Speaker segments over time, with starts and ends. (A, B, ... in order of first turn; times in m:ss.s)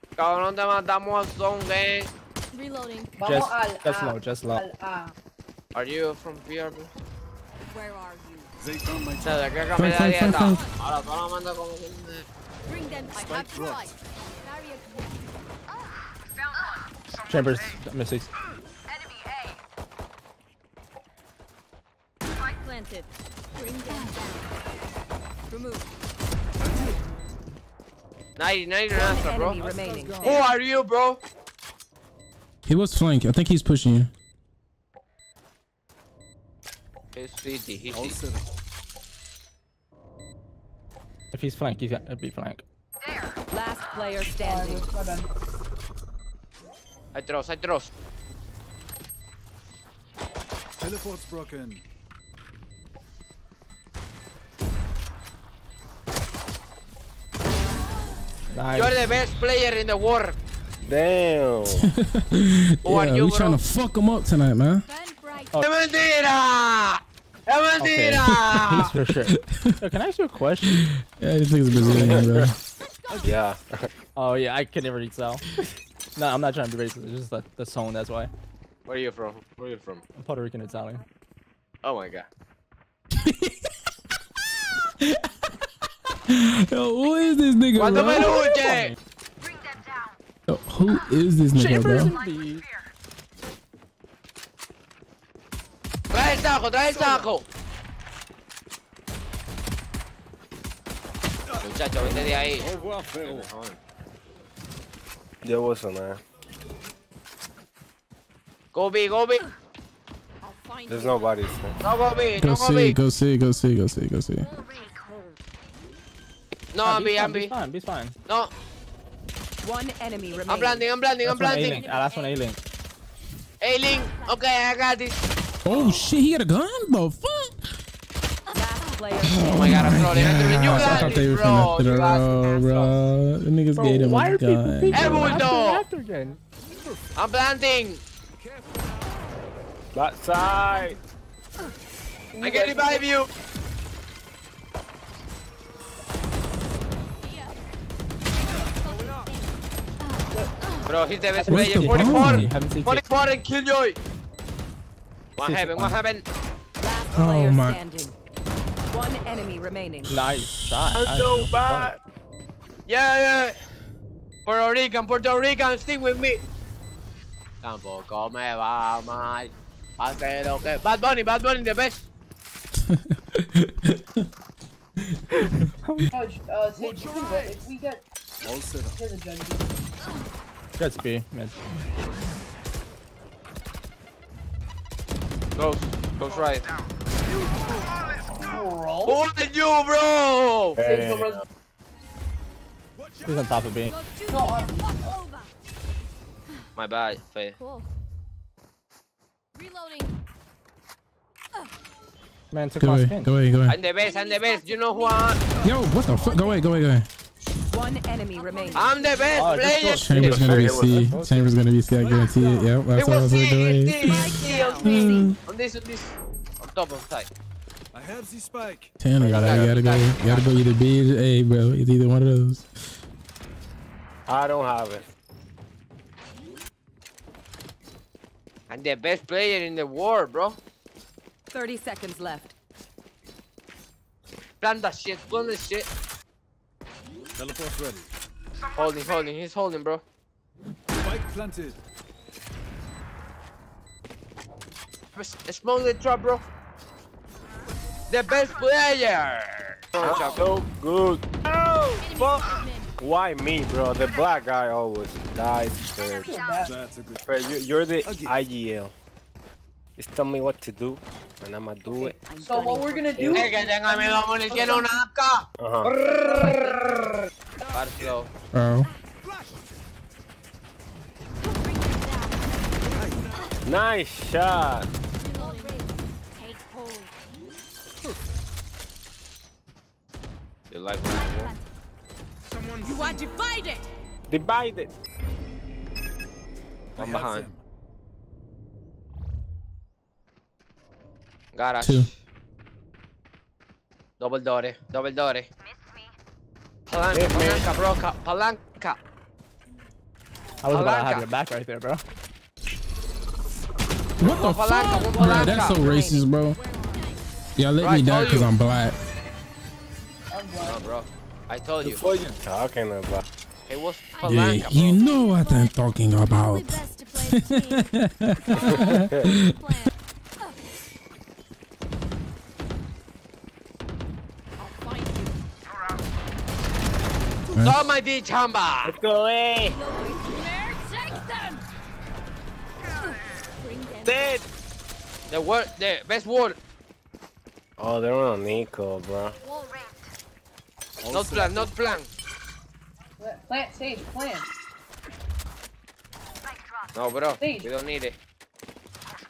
0:00.2-0:02.1 A
0:02.5-0:03.2 B
0:03.2-0:05.1 C
0:03.2-0:04.6 D
0:05.7-0:06.9 A
0:07.7-0:08.5 B
0:08.6-0:09.7 E
0:09.2-0:12.3 A
0:09.7-0:10.6 F
0:10.0-0:10.7 B
0:12.7-0:15.3 B
0:13.1-0:14.0 E
0:17.3-0:18.3 D
0:22.4-0:24.5 B
0:25.5-0:25.9 B
0:26.6-0:27.0 E
0:28.4-0:29.6 A
0:28.9-0:30.4 G
0:29.1-0:30.5 E
0:30.2-0:31.2 A
0:32.6-0:34.1 F
0:37.1-0:38.2 A
0:37.9-0:38.4 E
0:41.3-0:42.6 D
0:43.5-0:44.8 G
0:44.4-0:45.3 C
0:47.1-0:47.9 A
0:50.8-0:51.8 E
0:58.5-0:59.1 D
0:58.7-1:00.4 A
1:00.8-1:01.9 H
1:01.7-1:04.8 F
1:02.8-1:03.6 A
1:04.8-1:05.6 B
1:05.6-1:08.9 A
1:07.8-1:10.8 D
1:09.2-1:09.8 F
1:10.6-1:12.6 F
1:11.7-1:12.5 H
1:11.8-1:12.2 D
1:13.0-1:13.3 B
1:13.2-1:13.9 H
1:14.2-1:15.4 D
1:16.1-1:18.3 D
1:18.9-1:20.0 A
1:20.2-1:21.0 D
1:21.8-1:22.3 A
1:23.1-1:23.6 F
1:26.3-1:28.4 F
1:27.7-1:28.9 A
1:28.4-1:28.9 D
1:29.5-1:30.0 B
1:30.5-1:32.2 F
1:31.5-1:32.6 D
1:36.1-1:37.4 A
1:41.6-1:43.8 A
1:42.0-1:43.5 E
1:45.4-1:46.2 H
1:48.7-1:49.5 A
1:50.4-1:51.3 B
1:50.9-1:51.8 H
1:51.8-1:53.0 A
1:52.4-1:54.5 F
1:54.4-1:55.0 B
1:56.7-1:57.6 A
1:56.8-1:58.2 D
1:58.3-1:58.5 A
1:59.6-2:00.8 G
2:00.5-2:01.9 A
2:01.2-2:02.6 D
2:01.6-2:02.4 B
2:03.6-2:06.1 A
2:04.1-2:04.4 B
2:05.6-2:07.6 F
2:08.5-2:09.6 G
2:09.2-2:15.4 F
2:09.5-2:13.0 A
2:13.8-2:16.4 D
2:14.9-2:15.8 A
2:16.4-2:17.0 E
2:17.2-2:18.0 A
2:18.4-2:18.8 E
2:19.9-2:21.0 H
2:22.3-2:23.1 C
2:22.4-2:23.3 A
2:27.2-2:27.5 B
2:28.6-2:29.5 B
2:30.0-2:30.9 B
2:30.8-2:34.0 A
2:31.4-2:33.0 D
2:31.5-2:32.5 F
2:35.4-2:36.2 A
2:35.4-2:36.0 D
2:36.8-2:38.2 G
2:37.1-2:37.8 F
2:38.9-2:40.2 G
2:40.1-2:41.9 D
2:40.9-2:42.0 H
2:42.8-2:43.6 A
2:44.4-2:46.4 A
2:47.6-2:52.0 A
2:52.9-2:54.2 F
2:55.3-2:56.1 F
2:55.8-2:56.1 D
2:56.1-2:58.0 C
2:56.8-2:57.4 E
2:58.4-2:59.0 E
2:58.9-2:59.7 C
3:00.8-3:01.7 D
3:05.6-3:06.7 A
3:08.3-3:09.2 C
3:09.0-3:10.8 A
3:10.8-3:11.4 H
3:10.8-3:11.4 C
3:13.0-3:13.5 E
3:13.2-3:14.0 D
3:13.8-3:15.5 B
3:14.3-3:14.9 C
3:16.8-3:17.6 A
3:17.6-3:17.8 B
3:19.5-3:20.1 B
3:22.5-3:23.3 D
3:22.8-3:23.8 F
3:23.7-3:25.4 A
3:23.9-3:25.7 B
3:25.6-3:27.1 F
3:26.2-3:26.6 B
3:27.7-3:28.8 G
3:28.3-3:29.7 B
3:28.7-3:30.8 A
3:29.3-3:30.4 D
3:29.9-3:34.3 F
3:30.2-3:31.5 H
3:32.0-3:32.6 C
3:32.9-3:37.3 A
3:34.0-3:35.3 G
3:34.8-3:35.4 F
3:37.9-3:39.0 E
3:39.0-3:42.6 F
3:39.2-3:40.6 A
3:39.3-3:39.7 H
3:44.3-3:45.1 H
3:48.7-3:50.6 A
3:51.5-3:52.5 G
3:54.6-3:55.9 A
3:57.4-3:58.1 E
3:58.7-4:00.0 A
4:01.0-4:01.8 E
4:05.1-4:06.4 A
4:08.1-4:10.5 A
4:10.0-4:16.4 H
4:12.0-4:12.9 B
4:16.2-4:16.7 C
4:16.6-4:17.2 E
4:17.2-4:18.9 H
4:18.0-4:18.3 E
4:20.0-4:22.2 H
4:22.3-4:22.8 B
4:22.4-4:24.9 C
4:22.4-4:23.0 G
4:23.2-4:23.5 H
4:23.3-4:26.6 A
4:25.6-4:25.9 H
4:26.0-4:26.8 C
4:27.6-4:28.1 E
4:27.7-4:28.3 A
4:28.5-4:28.9 F
4:29.2-4:29.5 E
4:31.4-4:33.5 B
4:32.9-4:33.6 E
4:33.6-4:34.9 H
4:35.2-4:37.1 B
4:38.0-4:38.3 E
4:40.7-4:41.5 A
4:41.0-4:41.6 B
4:42.8-4:43.8 B
4:44.3-4:44.9 H
4:47.0-4:47.5 A
4:47.0-4:47.6 E
4:51.5-4:52.1 A
4:51.8-4:52.1 F
4:54.2-4:55.5 A
4:56.9-4:59.0 A
4:57.1-4:57.7 H
5:00.6-5:02.0 D
5:00.7-5:01.3 A
5:04.2-5:06.6 F
5:04.2-5:05.9 A
5:05.0-5:06.2 G
5:06.1-5:07.2 B
5:07.6-5:09.0 F
5:07.8-5:08.5 A
5:10.3-5:10.8 C
5:10.6-5:12.0 A
5:11.8-5:13.2 H
5:13.7-5:15.0 A
5:14.1-5:17.8 B
5:14.2-5:19.9 F
5:18.5-5:20.6 B
5:18.6-5:19.2 H
5:24.6-5:25.4 B
5:27.5-5:27.8 F
5:27.6-5:29.0 A
5:28.8-5:29.8 H
5:29.6-5:31.6 B
5:33.0-5:34.4 B
5:34.0-5:34.4 H
5:35.3-5:36.6 A
5:37.8-5:39.4 H
5:39.4-5:39.9 B
5:41.0-5:41.7 E
5:41.1-5:42.1 A
5:43.2-5:44.5 C
5:46.9-5:48.2 A
5:47.4-5:47.7 C